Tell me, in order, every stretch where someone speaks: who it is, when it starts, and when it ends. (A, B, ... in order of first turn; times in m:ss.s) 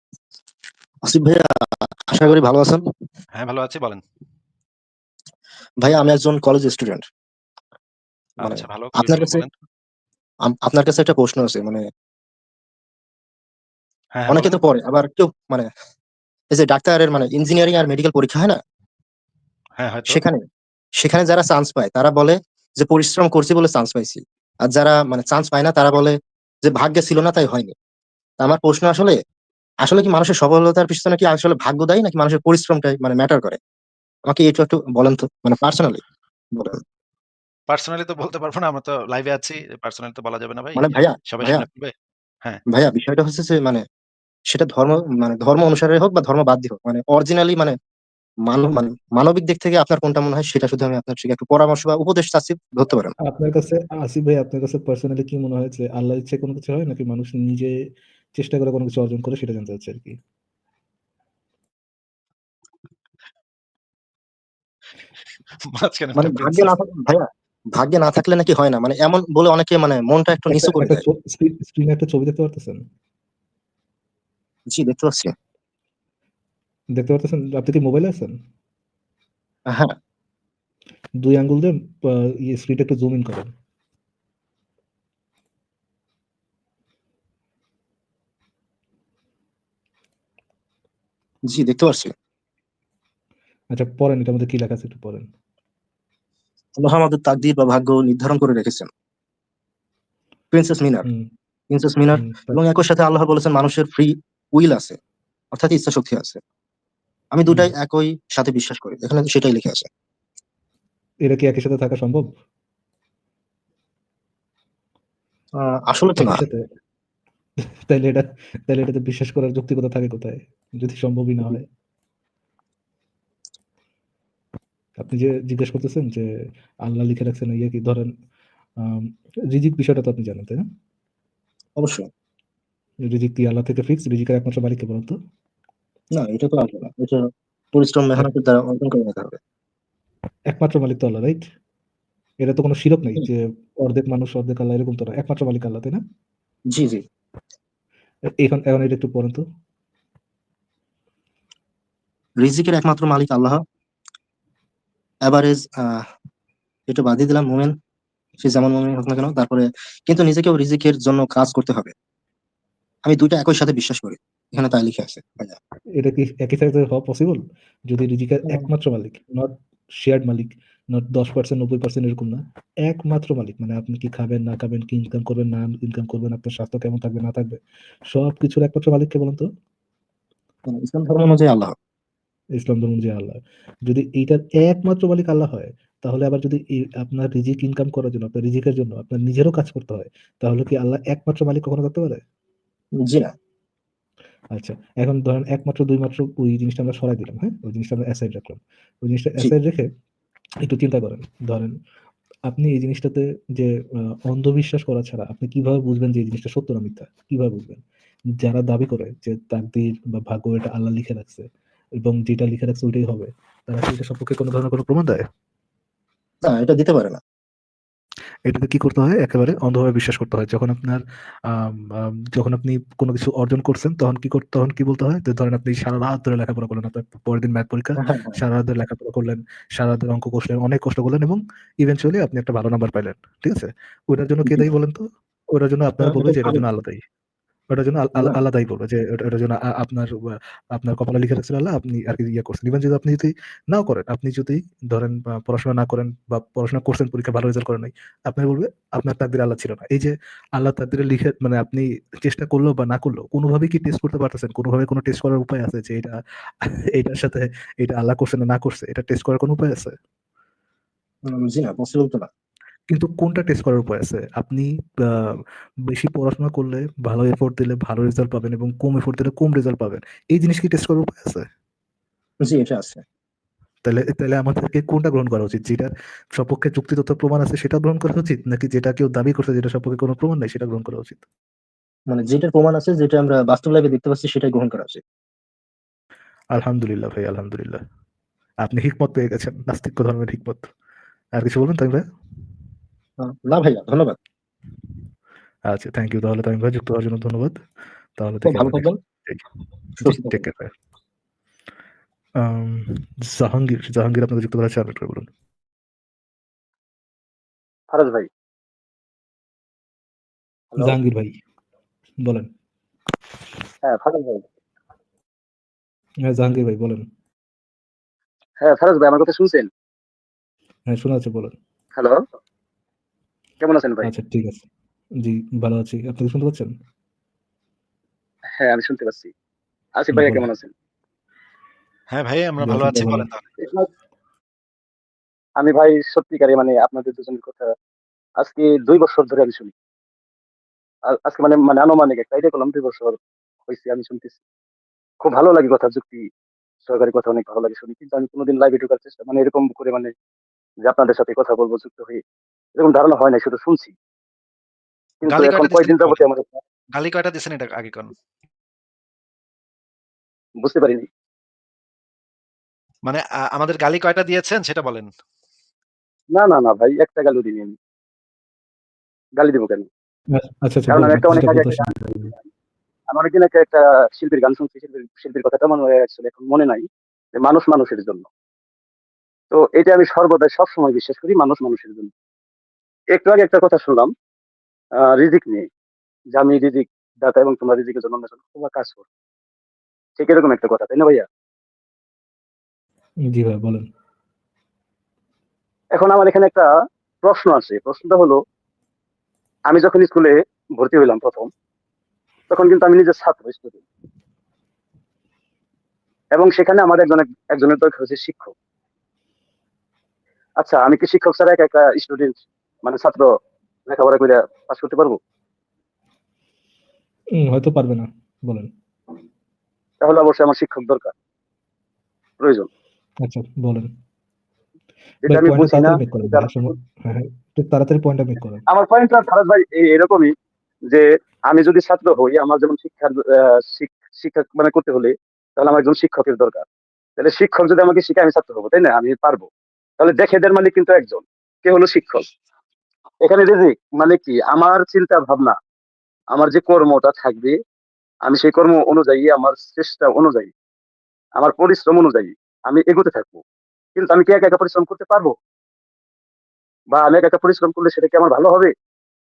0:01.0-0:02.8 A
0:03.4-0:04.0 B
0:05.8-0:07.0 A
0:08.4-0:09.4 A
0:08.4-0:09.5 B
0:10.4-0:11.8 A
0:14.1-0:14.6 B
0:14.3-0:15.7 A
0:16.5-0:18.6 A
0:19.8-0:20.2 B
0:20.1-0:20.4 A
0:21.0-0:27.7 A
0:28.4-0:29.2 A
0:29.8-0:33.6 A
0:34.3-0:36.0 A
0:36.5-0:36.8 A
0:37.7-0:41.9 B
0:40.8-0:41.6 A
0:42.7-0:43.8 A
0:44.5-0:47.8 A
0:48.4-0:53.1 A
0:53.2-0:57.7 C
0:58.4-1:00.2 C
1:05.6-1:06.7 B
1:06.2-1:11.0 A
1:10.5-1:12.8 C
1:14.7-1:15.3 A
1:16.9-1:18.3 C
1:19.7-1:20.0 A
1:21.2-1:23.5 C
1:31.5-1:32.1 A
1:33.7-1:35.2 C
1:36.8-1:38.9 A
1:40.5-1:41.1 A
1:41.7-1:45.0 A
1:42.1-1:42.6 C
1:45.5-1:46.4 A
1:47.3-1:49.9 A
1:51.2-1:52.3 C
1:55.6-1:56.4 A
1:56.2-1:56.6 C
1:57.9-2:01.6 C
2:05.0-2:06.2 C
2:06.8-2:08.1 C
2:08.8-2:10.6 C
2:11.8-2:12.1 A
2:13.0-2:15.2 C
2:16.1-2:19.4 A
2:20.5-2:21.4 C
2:22.4-2:26.0 C
2:26.7-2:27.0 A
2:28.3-2:29.4 C
2:32.4-2:33.6 A
2:35.2-2:36.0 A
2:36.9-2:37.7 A
2:38.4-2:41.9 A
2:43.0-2:45.6 A
2:46.0-2:59.5 C
3:00.7-3:01.7 A
3:02.6-3:12.2 C
3:13.0-3:13.3 A
3:14.5-3:19.9 C
3:20.6-3:21.7 C
3:22.5-3:27.8 C
3:28.4-3:31.5 C
3:32.0-3:35.2 C
3:36.4-3:37.2 A
3:38.5-3:57.0 C
3:48.0-3:48.4 A
3:56.0-3:56.6 A
3:57.7-4:16.1 C
4:16.6-4:19.9 C
4:21.2-4:22.3 A
4:22.9-4:25.2 C
4:25.9-4:31.4 C
4:32.4-4:33.0 A
4:33.8-4:41.2 C
4:42.1-4:45.0 A
4:46.5-4:47.8 C
4:48.6-4:50.7 C
4:51.4-4:52.0 C
4:53.2-4:54.2 A
4:55.7-4:57.6 C
4:58.2-4:59.4 C
4:58.5-4:59.0 A
5:00.0-5:00.7 C
5:00.0-5:00.4 A
5:02.4-5:05.3 C
5:07.9-5:08.3 D
5:10.8-5:11.4 C
5:12.2-5:12.5 C
5:13.8-5:14.4 D
5:16.3-5:17.0 C
5:18.6-5:19.7 D
5:20.9-5:21.5 C
5:21.9-5:22.2 D
5:23.6-5:24.1 D
5:24.0-5:24.6 C
5:25.2-5:26.7 C
5:28.6-5:29.3 D
5:30.0-5:30.7 D
5:30.1-5:30.4 C
5:32.1-5:33.5 B
5:32.6-5:33.3 C
5:33.6-5:33.9 D
5:35.6-5:37.7 D
5:38.4-5:39.7 D
5:41.0-5:44.4 D
5:45.2-5:46.3 D
5:46.8-5:50.1 D
5:50.8-5:52.2 D
5:52.8-5:53.9 D
5:55.2-5:56.5 D
5:55.2-5:56.3 B
5:56.9-5:58.1 B
6:00.6-6:01.0 D
6:03.0-6:05.1 B
6:06.3-6:07.8 D
6:09.4-6:09.9 D
6:10.3-6:12.3 C
6:10.9-6:12.4 D
6:13.1-6:16.8 D
6:17.4-6:18.3 D
6:19.5-6:22.1 D
6:23.1-6:24.1 D
6:25.0-6:25.7 D
6:26.3-6:29.0 D
6:30.2-6:31.2 D
6:33.3-6:33.8 C
6:35.9-6:36.7 D
6:37.2-6:38.4 D
6:39.7-6:41.5 D
6:42.5-6:43.8 D
6:46.3-6:48.5 D
6:50.6-6:53.3 D
6:53.9-6:55.2 D
6:57.4-6:58.7 C
7:00.0-7:01.1 D
7:02.4-7:02.7 D
7:03.2-7:03.9 C
7:05.3-7:06.7 D
7:05.3-7:08.6 C
7:08.7-7:10.3 D
7:10.9-7:16.6 D
7:17.2-7:19.5 D
7:20.0-7:22.3 D
7:23.2-7:25.6 D
7:26.3-7:27.6 D
7:28.2-7:30.5 D
7:31.4-7:33.4 D
7:34.0-7:35.3 D
7:36.9-7:38.7 D